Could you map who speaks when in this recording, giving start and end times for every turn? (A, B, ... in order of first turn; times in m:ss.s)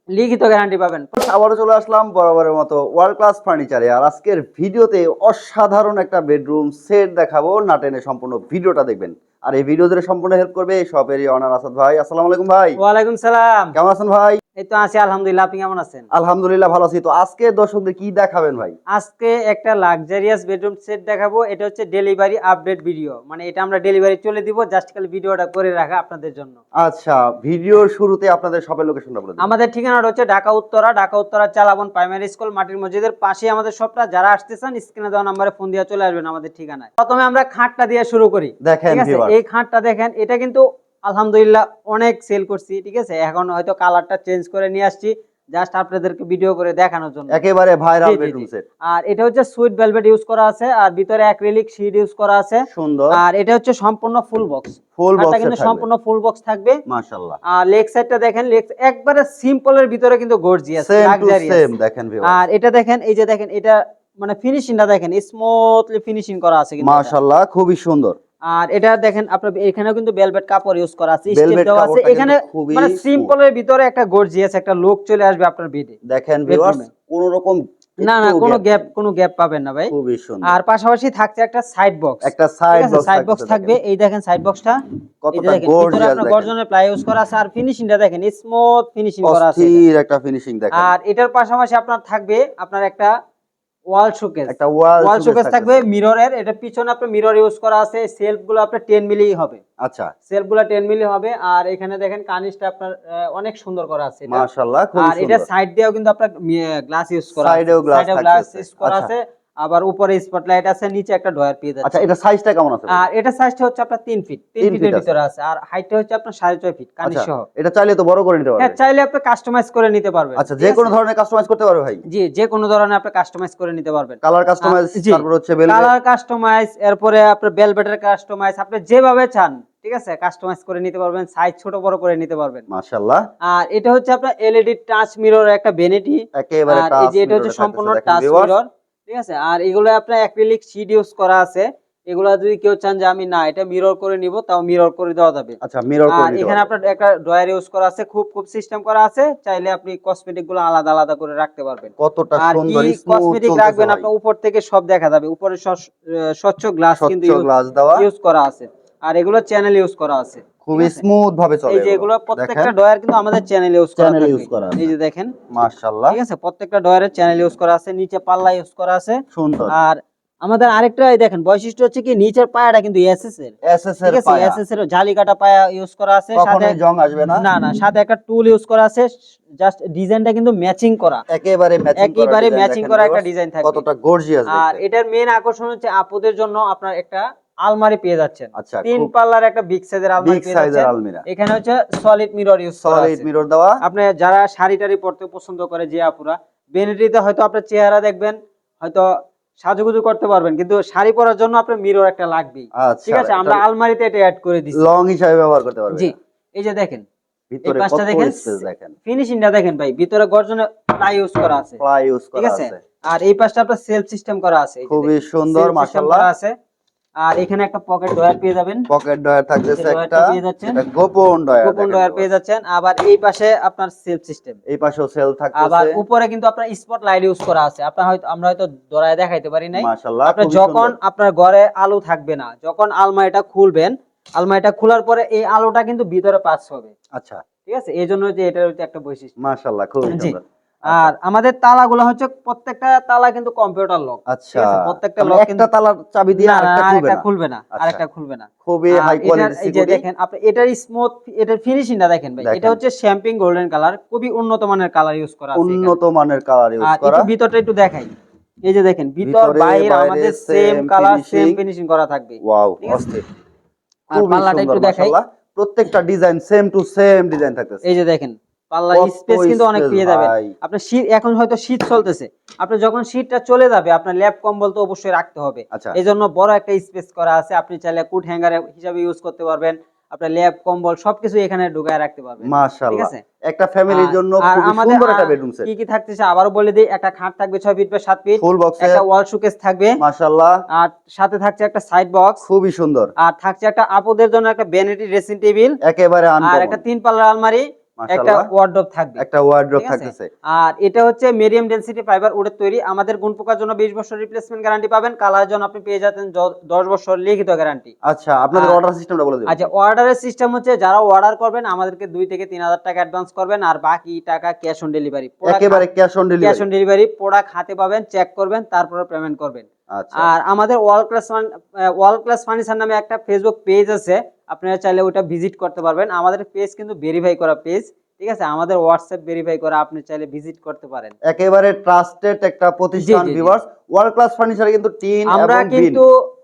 0:00.1-0:01.1 A
0:01.2-0:12.8 B
0:12.8-0:13.8 A
0:13.8-0:14.4 B
0:14.6-0:16.1 A
0:16.1-0:18.8 B
0:18.9-0:26.6 A
0:26.8-0:29.5 B
0:29.4-0:47.4 A
0:38.6-0:39.4 B
0:47.3-0:48.6 B
0:48.0-0:56.8 A
0:52.7-0:53.2 B
0:55.0-0:55.9 B
0:56.9-0:57.4 B
0:57.5-1:01.7 A
1:00.8-1:02.4 B
1:02.2-1:07.2 A
1:06.8-1:08.2 B
1:08.5-1:16.9 A
1:11.3-1:13.3 B
1:16.1-1:18.9 B
1:18.0-1:19.9 A
1:19.9-1:20.5 B
1:20.4-1:24.8 A
1:22.2-1:23.8 B
1:25.2-1:26.5 B
1:25.3-1:29.8 A
1:29.2-1:30.9 B
1:30.7-1:33.1 A
1:33.9-1:39.6 A
1:34.5-1:35.9 B
1:39.8-1:40.1 B
1:40.3-1:44.4 A
1:44.3-1:45.5 B
1:45.0-1:52.1 A
1:47.4-1:49.1 B
1:51.8-1:53.1 B
1:52.9-1:57.5 A
1:54.6-1:55.1 B
1:57.0-1:58.8 B
1:58.6-2:00.9 A
2:00.4-2:02.0 B
2:02.1-2:12.6 A
2:04.2-2:05.9 B
2:12.7-2:13.2 B
2:13.4-2:25.6 A
2:16.4-2:18.6 B
2:25.6-2:26.7 B
2:26.1-2:41.0 A
2:32.0-2:34.1 B
2:37.0-2:38.1 B
2:40.6-2:42.7 B
2:41.7-2:45.4 A
2:44.0-2:44.9 B
2:45.5-2:46.2 B
2:46.1-2:56.8 A
2:49.3-2:49.8 B
2:53.6-2:54.6 B
2:56.4-2:57.5 B
2:57.4-3:01.2 A
3:01.3-3:04.8 B
3:02.0-3:03.8 A
3:04.5-3:13.3 A
3:08.6-3:09.1 B
3:10.2-3:11.2 B
3:12.8-3:13.8 B
3:13.8-3:24.9 A
3:22.8-3:23.6 B
3:24.7-3:26.1 B
3:25.9-3:27.0 A
3:27.5-3:29.0 B
3:27.6-3:31.8 A
3:31.8-3:32.8 B
3:32.4-3:36.5 A
3:34.9-3:36.3 B
3:37.2-3:38.9 A
3:38.9-3:42.3 B
3:39.7-3:40.8 A
3:41.6-3:44.6 A
3:44.7-3:46.0 B
3:45.6-3:56.9 A
3:49.8-3:51.0 B
3:57.2-3:57.4 B
3:57.7-3:59.3 A
3:59.4-4:01.1 B
4:00.1-4:05.7 A
4:04.3-4:07.2 B
4:06.4-4:15.9 A
4:07.8-4:08.0 B
4:08.6-4:10.0 B
4:12.4-4:12.8 B
4:15.6-4:17.3 B
4:16.8-4:18.1 A
4:18.6-4:23.1 A
4:19.2-4:21.6 B
4:22.4-4:23.2 B
4:24.1-4:25.1 A
4:24.1-4:27.8 B
4:27.8-4:43.2 A
4:28.9-4:30.5 B
4:42.4-4:45.7 B
4:43.9-4:50.0 A
4:48.4-4:49.0 B
4:50.0-4:50.6 B
4:50.7-4:52.4 A
4:52.4-4:53.1 B
4:53.2-4:55.8 A
4:55.8-4:56.8 B
4:56.4-4:59.2 A
4:58.0-4:58.5 B
4:59.2-5:00.3 B
4:59.8-5:07.9 A
5:08.0-5:09.7 B
5:08.5-5:08.8 A
5:09.5-5:15.8 A
5:15.4-5:16.6 B
5:16.4-5:31.1 A
5:19.9-5:20.3 B
5:31.2-5:36.0 B
5:33.0-5:33.6 A
5:35.3-5:36.1 A